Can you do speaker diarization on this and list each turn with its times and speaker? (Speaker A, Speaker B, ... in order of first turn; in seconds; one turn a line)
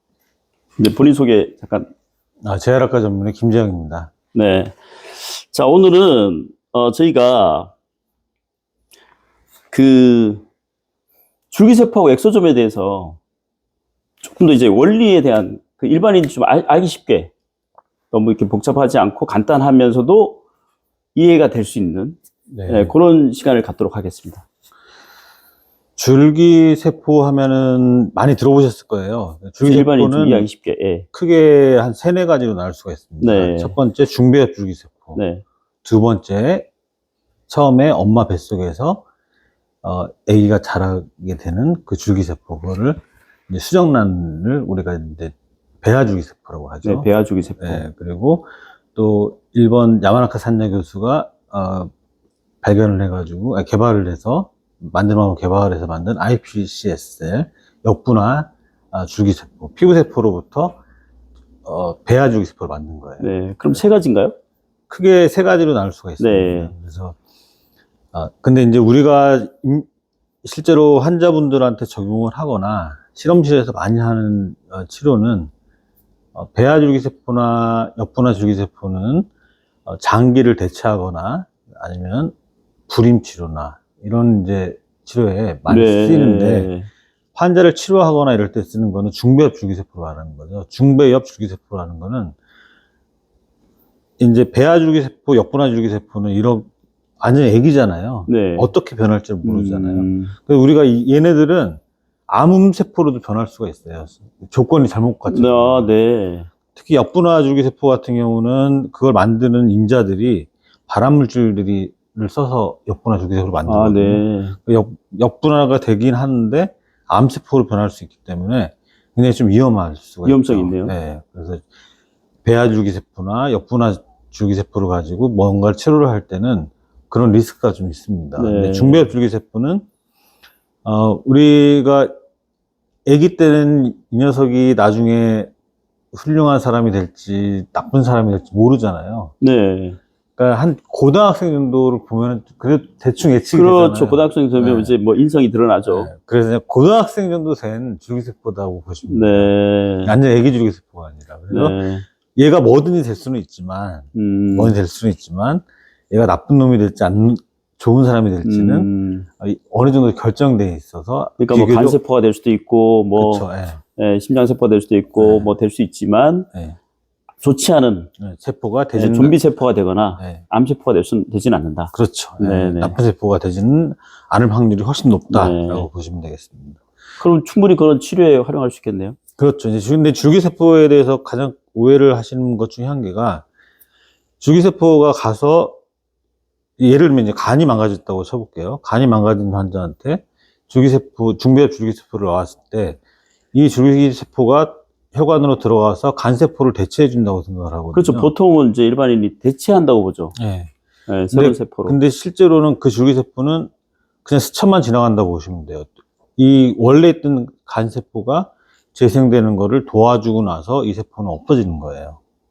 Speaker A: 0.8-1.9
Speaker B: 2.4-4.1
Speaker A: 4.3-7.7
Speaker A: 9.7-10.4
Speaker A: 11.5-13.2
Speaker A: 14.2-17.3
Speaker A: 18.1-20.4
Speaker A: 21.1-22.2
Speaker B: 22.5-22.9
Speaker A: 22.7-24.4
Speaker B: 26.0-30.5
Speaker A: 29.6-31.1
Speaker B: 31.1-35.2
Speaker A: 33.2-33.8
Speaker A: 35.1-35.4
Speaker B: 35.8-36.7
Speaker B: 37.5-39.0
Speaker B: 39.8-47.1
Speaker A: 46.8-47.9
Speaker B: 47.6-51.9
Speaker B: 52.6-60.8
Speaker B: 61.6-63.8
Speaker A: 63.2-64.3
Speaker B: 64.9-67.2
Speaker A: 66.2-66.7
Speaker B: 68.1-69.9
Speaker B: 70.4-75.5
Speaker B: 76.3-79.3
Speaker B: 79.9-82.3
Speaker B: 82.9-86.7
Speaker A: 85.7-86.9
Speaker B: 87.3-92.4
Speaker B: 94.2-96.7
Speaker B: 97.2-105.9
Speaker A: 98.3-98.7
Speaker A: 99.4-100.3
Speaker A: 105.3-106.5
Speaker B: 106.8-121.7
Speaker A: 113.7-114.6
Speaker A: 120.2-120.9
Speaker B: 122.5-129.8
Speaker A: 128.3-129.1
Speaker B: 130.8-132.1
Speaker B: 133.1-135.5
Speaker B: 136.1-139.3
Speaker A: 139.4-140.0
Speaker B: 140.4-144.9
Speaker A: 143.5-146.1
Speaker B: 145.9-149.5
Speaker A: 149.1-150.1
Speaker B: 150.0-151.8
Speaker A: 151.5-152.1
Speaker B: 152.3-158.9
Speaker A: 154.2-154.8
Speaker A: 158.4-159.3
Speaker B: 159.4-162.0
Speaker A: 161.4-166.5
Speaker B: 163.2-163.8
Speaker B: 165.2-165.5
Speaker A: 167.4-168.1
Speaker B: 168.2-169.4
Speaker A: 168.9-173.0
Speaker B: 170.2-170.4
Speaker B: 171.9-176.8
Speaker A: 175.3-175.9
Speaker A: 177.2-179.2
Speaker B: 179.4-183.5
Speaker B: 184.4-185.8
Speaker B: 186.8-193.0
Speaker B: 193.5-198.3
Speaker A: 197.9-200.3
Speaker B: 200.3-200.7
Speaker A: 201.1-202.0
Speaker B: 201.3-203.7
Speaker B: 204.2-212.2